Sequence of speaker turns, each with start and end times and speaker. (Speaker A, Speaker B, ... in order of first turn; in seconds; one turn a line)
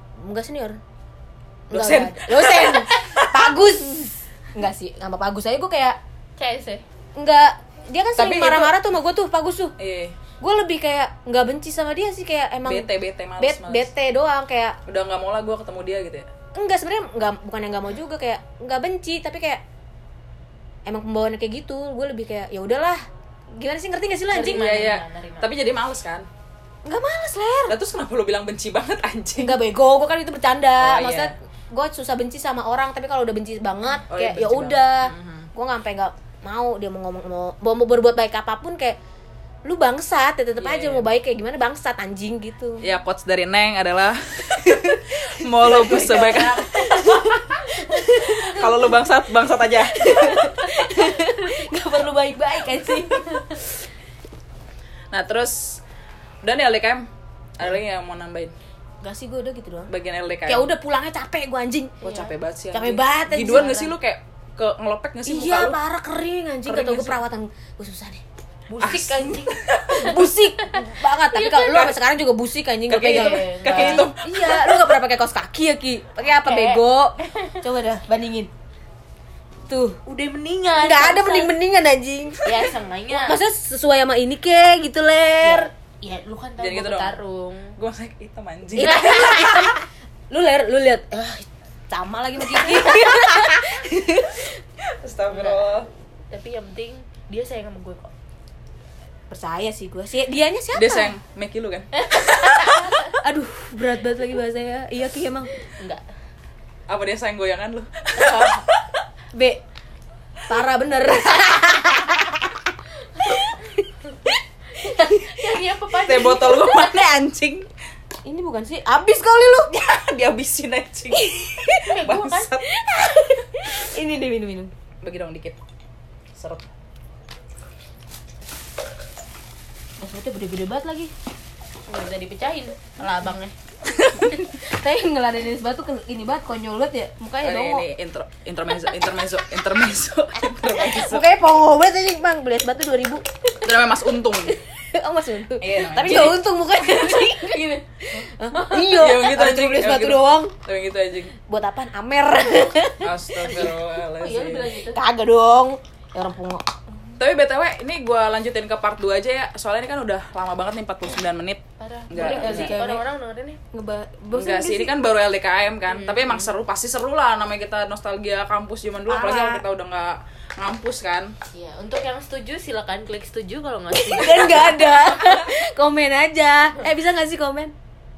Speaker A: 0.2-0.8
Speaker A: 1.7-6.0
Speaker B: 1.7-3.6
Speaker C: 6.4-6.8
Speaker A: 7.2-9.7
Speaker B: 8.2-8.7
Speaker B: 9.8-10.2
Speaker A: 10.4-12.9
Speaker B: 12.7-13.9
Speaker A: 13.4-14.8
Speaker B: 14.9-16.3
Speaker A: 16.5-19.6
Speaker A: 20.9-23.0
Speaker A: 23.5-24.7
Speaker C: 24.3-25.5
Speaker B: 24.4-26.3
Speaker A: 26.8-27.8
Speaker B: 27.7-29.6
Speaker A: 29.4-39.0
Speaker B: 30.8-31.3
Speaker B: 34.1-35.5
Speaker A: 39.6-42.9
Speaker B: 40.6-41.1
Speaker B: 42.8-47.0
Speaker A: 44.6-48.9
Speaker C: 45.6-48.7
Speaker B: 48.4-50.5
Speaker A: 50.0-53.6
Speaker C: 50.3-51.0
Speaker C: 53.1-53.6
Speaker B: 55.1-55.8
Speaker B: 56.4-57.1
Speaker B: 57.6-58.5
Speaker A: 59.0-59.9
Speaker B: 59.9-60.7
Speaker A: 60.5-64.0
Speaker B: 62.0-65.8
Speaker A: 65.3-68.2
Speaker B: 66.7-67.2
Speaker C: 68.7-71.5
Speaker B: 68.8-70.2
Speaker A: 69.9-78.5
Speaker B: 71.4-72.0
Speaker B: 72.9-74.9
Speaker C: 73.0-74.1
Speaker C: 76.2-77.6
Speaker A: 79.7-80.0
Speaker C: 80.1-81.5
Speaker A: 80.8-82.5
Speaker C: 82.5-83.4
Speaker A: 83.1-85.7
Speaker C: 85.4-87.8
Speaker B: 86.6-87.2
Speaker B: 87.8-89.7
Speaker A: 88.8-94.6
Speaker C: 88.8-89.7
Speaker B: 94.9-95.9
Speaker C: 95.3-95.6
Speaker C: 96.3-98.1
Speaker A: 99.3-101.1
Speaker B: 100.7-102.6
Speaker C: 102.0-103.1
Speaker A: 102.6-105.5
Speaker C: 105.8-106.0
Speaker B: 106.9-108.8
Speaker C: 108.2-108.7
Speaker A: 109.3-109.6
Speaker A: 110.5-112.7
Speaker C: 113.2-113.6
Speaker A: 113.2-113.9
Speaker C: 114.1-117.0
Speaker A: 114.8-115.2
Speaker B: 116.0-117.7
Speaker A: 118.3-119.8
Speaker B: 119.7-122.7
Speaker A: 121.1-121.4
Speaker C: 121.8-122.5
Speaker A: 122.7-124.7
Speaker B: 125.0-125.6
Speaker B: 126.3-126.7
Speaker A: 130.0-131.1
Speaker C: 131.9-133.6
Speaker A: 133.9-137.9
Speaker B: 137.4-141.3
Speaker A: 140.8-143.2
Speaker B: 143.6-144.6
Speaker A: 144.7-150.6
Speaker B: 145.6-146.4
Speaker C: 147.4-149.0
Speaker B: 148.9-151.4
Speaker A: 151.5-153.7
Speaker B: 153.0-154.7
Speaker C: 153.4-155.0
Speaker A: 154.9-156.7
Speaker B: 157.2-162.8
Speaker C: 161.8-163.6
Speaker A: 162.2-163.0
Speaker A: 163.7-164.9
Speaker B: 164.3-171.3
Speaker C: 165.9-166.5
Speaker A: 169.1-169.6
Speaker C: 171.5-175.1
Speaker A: 173.9-177.7